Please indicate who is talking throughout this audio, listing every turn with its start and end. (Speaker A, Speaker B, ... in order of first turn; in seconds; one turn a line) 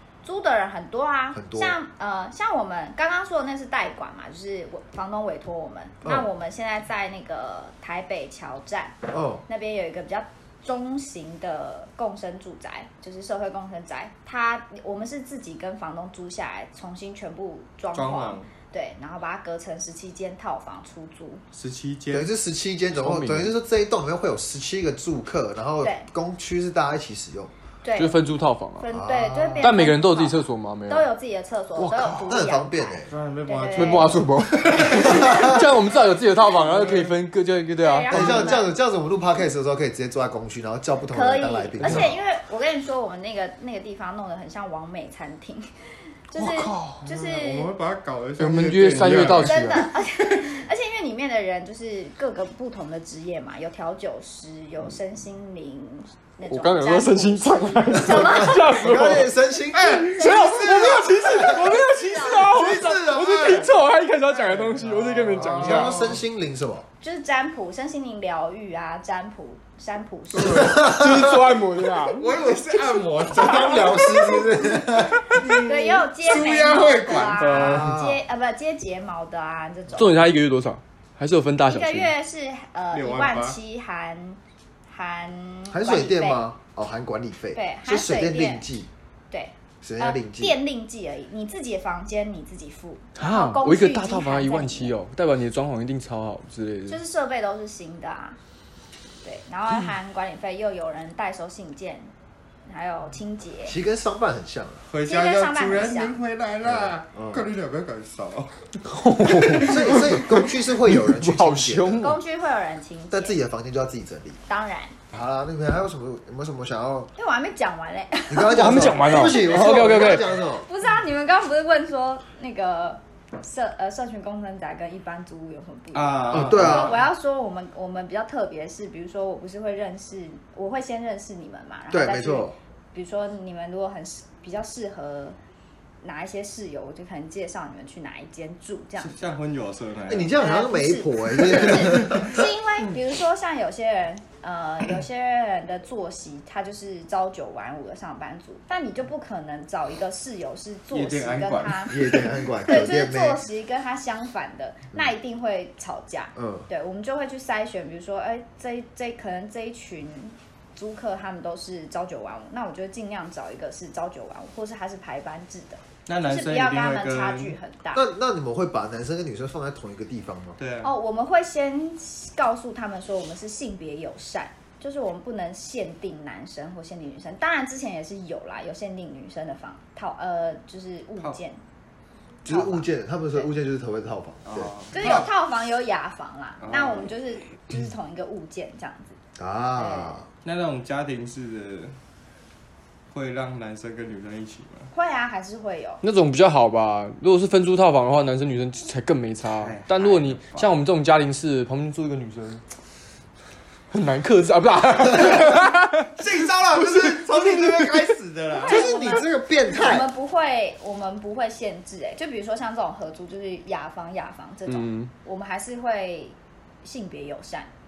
Speaker A: 0.2-8.9
Speaker B: 1.3-1.8
Speaker B: 9.1-9.4
Speaker A: 9.5-21.4
Speaker C: 17.9-18.5
Speaker C: 21.5-22.3
Speaker B: 22.1-27.5
Speaker D: 23.0-23.5
Speaker A: 25.8-26.1
Speaker A: 27.8-28.2
Speaker D: 28.0-28.8
Speaker A: 28.8-34.2
Speaker B: 28.9-29.8
Speaker D: 29.6-31.1
Speaker D: 31.8-32.4
Speaker B: 32.2-33.1
Speaker C: 33.1-35.5
Speaker D: 33.7-38.5
Speaker B: 34.9-35.7
Speaker C: 36.5-37.1
Speaker A: 37.8-38.7
Speaker B: 38.1-42.1
Speaker A: 41.1-45.7
Speaker A: 46.3-47.7
Speaker D: 46.4-47.0
Speaker C: 47.0-49.6
Speaker D: 48.4-49.9
Speaker A: 49.4-59.0
Speaker D: 56.5-59.3
Speaker B: 57.9-60.2
Speaker C: 59.7-61.5
Speaker D: 59.9-66.0
Speaker A: 60.2-61.0
Speaker A: 61.8-62.4
Speaker C: 62.3-63.7
Speaker C: 64.3-66.2
Speaker B: 65.4-66.9
Speaker A: 67.0-71.0
Speaker C: 70.3-70.7
Speaker D: 70.5-72.3
Speaker B: 70.5-71.4
Speaker C: 72.1-77.8
Speaker B: 73.3-75.3
Speaker A: 73.8-74.4
Speaker A: 75.3-80.2
Speaker D: 77.4-77.9
Speaker B: 77.5-78.2
Speaker D: 79.9-82.1
Speaker A: 81.7-86.4
Speaker C: 82.9-83.6
Speaker B: 85.7-88.9
Speaker A: 87.5-88.7
Speaker A: 89.3-94.9
Speaker B: 89.8-90.6
Speaker D: 93.2-97.0
Speaker A: 96.9-98.4
Speaker A: 99.2-102.1
Speaker A: 102.7-103.8
Speaker B: 103.7-104.8
Speaker C: 104.9-108.6
Speaker A: 105.0-106.2
Speaker B: 106.6-107.5
Speaker D: 108.9-112.2
Speaker C: 109.3-109.7
Speaker B: 109.5-112.1
Speaker A: 112.0-113.4
Speaker B: 113.1-114.4
Speaker A: 114.5-115.0
Speaker B: 115.1-117.1
Speaker A: 117.2-135.4
Speaker B: 118.3-120.7
Speaker D: 118.4-120.2
Speaker C: 125.9-127.0
Speaker B: 126.3-127.0
Speaker B: 131.9-132.5
Speaker A: 136.0-139.2
Speaker C: 139.0-140.4
Speaker B: 140.1-142.4
Speaker A: 140.4-168.0
Speaker C: 141.7-142.2
Speaker C: 150.9-152.3
Speaker B: 151.9-153.4
Speaker B: 156.3-156.7
Speaker C: 166.1-167.6
Speaker B: 167.9-170.6
Speaker C: 170.6-170.9
Speaker A: 170.8-181.6
Speaker B: 182.4-185.2
Speaker A: 182.4-183.5
Speaker C: 184.4-185.3
Speaker A: 184.9-189.2
Speaker C: 186.6-187.1
Speaker B: 189.4-190.3
Speaker A: 189.8-190.2
Speaker C: 190.4-191.9
Speaker C: 193.1-194.9
Speaker A: 194.9-196.0
Speaker D: 196.0-202.6
Speaker C: 199.5-200.7
Speaker D: 203.9-206.1
Speaker C: 206.1-208.9
Speaker D: 206.8-207.9
Speaker A: 208.6-217.7
Speaker B: 208.7-210.1
Speaker D: 214.7-215.1